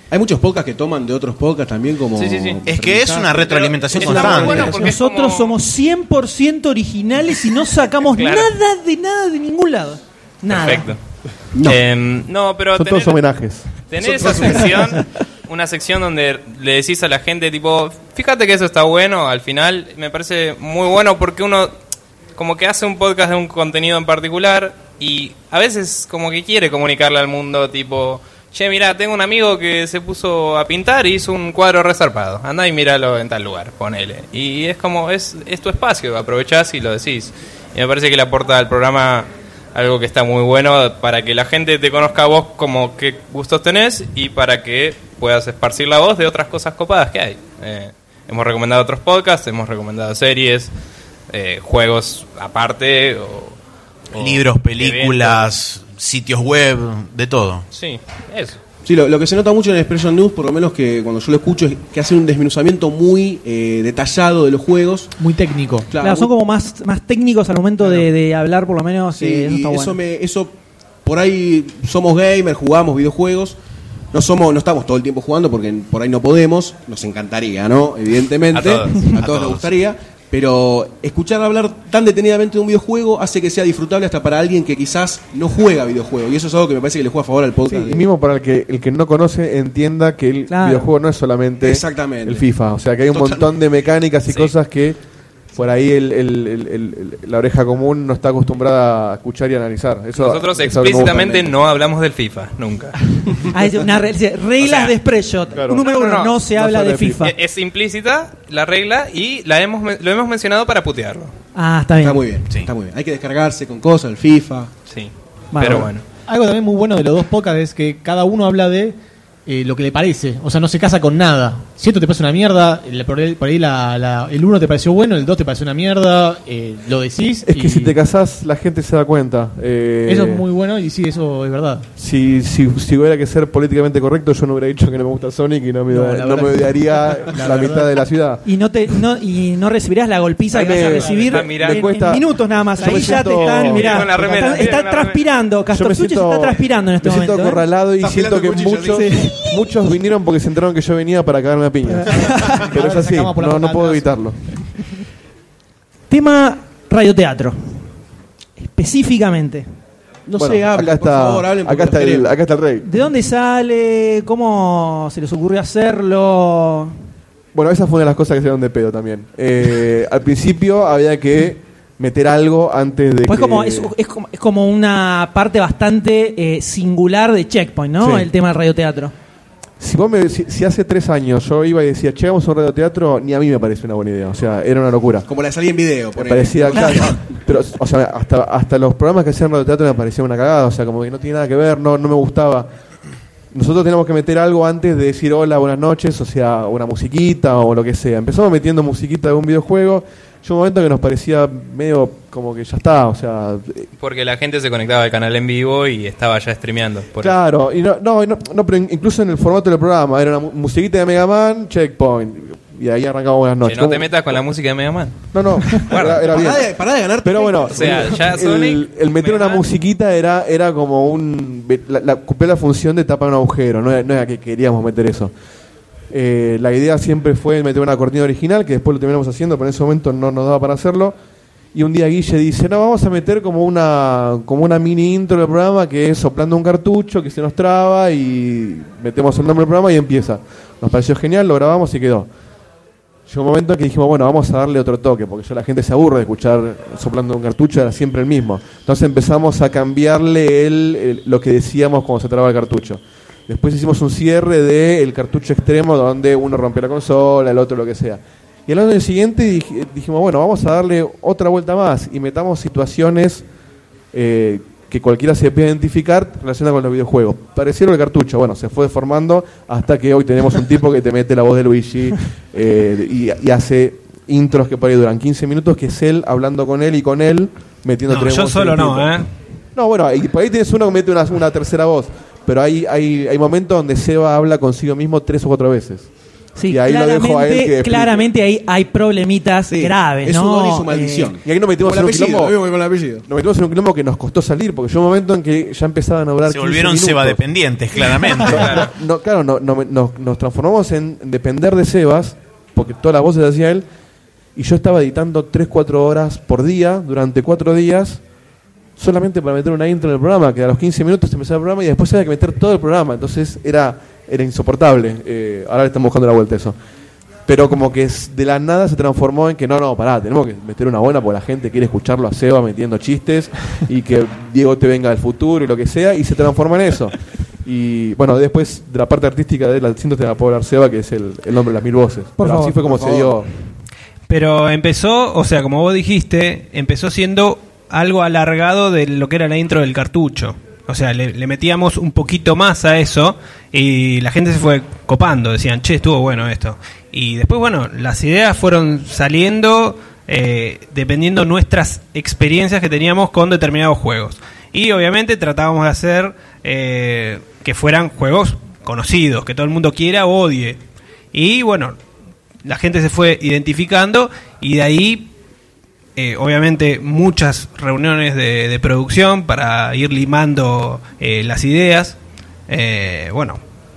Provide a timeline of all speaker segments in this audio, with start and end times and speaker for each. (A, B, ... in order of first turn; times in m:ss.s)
0:00.1-0:04.8 A
0:02.2-0:02.6 B
0:02.6-0:04.8 C
0:03.4-0:05.6 B
0:04.3-0:10.9 D
0:08.1-0:08.5 B
0:10.5-0:11.0 B
0:11.5-0:11.8 A
0:11.6-0:13.2 B
0:12.8-0:13.7 E
0:13.9-0:21.7 B
0:14.0-0:15.0 A
0:22.4-0:50.7 B
0:51.3-0:53.6 B
0:54.1-0:55.5 B
0:54.2-0:57.6 C
0:57.7-0:58.6 B
0:58.8-1:05.1 A
1:05.2-1:05.9 F
1:05.9-1:06.3 A
1:06.0-1:10.0 D
1:09.1-1:13.6 A
1:14.1-1:28.0 A
1:18.5-1:19.0 B
1:19.2-1:19.7 C
1:27.7-1:35.0 E
1:30.5-1:30.9 D
1:31.6-1:32.4 A
1:33.1-1:33.4 A
1:34.3-1:34.5 B
1:35.6-1:41.5 E
1:40.2-1:43.4 B
1:43.5-1:47.3 D
1:44.6-1:44.9 B
1:45.6-1:45.9 E
1:45.8-1:46.4 B
1:46.5-1:47.3 E
1:47.2-1:51.3 B
1:51.6-1:52.2 D
1:52.0-1:54.7 A
1:54.9-1:56.0 B
1:55.5-1:55.9 D
1:56.3-2:08.0 F
2:07.4-2:10.4 E
2:10.1-2:11.9 F
2:12.0-2:18.4 E
2:15.9-2:17.9 F
2:18.4-2:27.6 D
2:20.5-2:24.2 E
2:20.7-2:21.4 F
2:21.1-2:21.8 B
2:23.2-2:25.3 B
2:25.7-2:34.6 E
2:28.0-2:29.1 A
2:28.9-2:29.7 D
2:31.9-2:34.7 F
2:36.1-2:37.9 D
2:38.6-2:39.7 D
2:40.3-2:42.3 A
2:40.4-2:42.9 E
2:42.8-2:47.0 D
2:47.5-2:53.9 E
2:53.3-2:59.1 D
2:58.0-2:58.3 E
2:59.8-3:05.3 E
3:05.3-3:07.2 A
3:06.2-3:12.7 E
3:06.7-3:07.1 D
3:13.5-3:23.9 E
3:24.0-3:27.4 B
3:27.2-3:34.1 E
3:33.6-3:36.3 B
3:35.3-3:36.7 E
3:36.2-3:38.2 A
3:37.2-3:45.3 E
3:37.7-3:39.7 B
3:46.1-3:51.2 E
3:51.7-4:02.3 E
4:03.3-4:23.4 E
4:24.1-4:39.1 E
4:38.1-4:39.3 G
4:39.8-4:46.1 E
4:46.6-4:51.3 D
4:46.7-4:48.2 E
4:49.7-4:53.3 A
4:51.4-4:52.6 E
4:53.2-4:57.4 E
4:56.5-4:58.9 C
4:58.0-5:03.8 E
4:58.5-4:58.9 B
5:04.6-5:08.2 E
5:09.0-5:16.8 E
5:17.5-5:27.1 E
5:27.6-5:33.5 E
5:32.4-5:32.8 D
5:32.8-5:33.4 A
5:34.3-6:00.8 G
6:01.3-6:02.0 G
6:02.6-6:05.3 G
6:06.2-6:13.6 G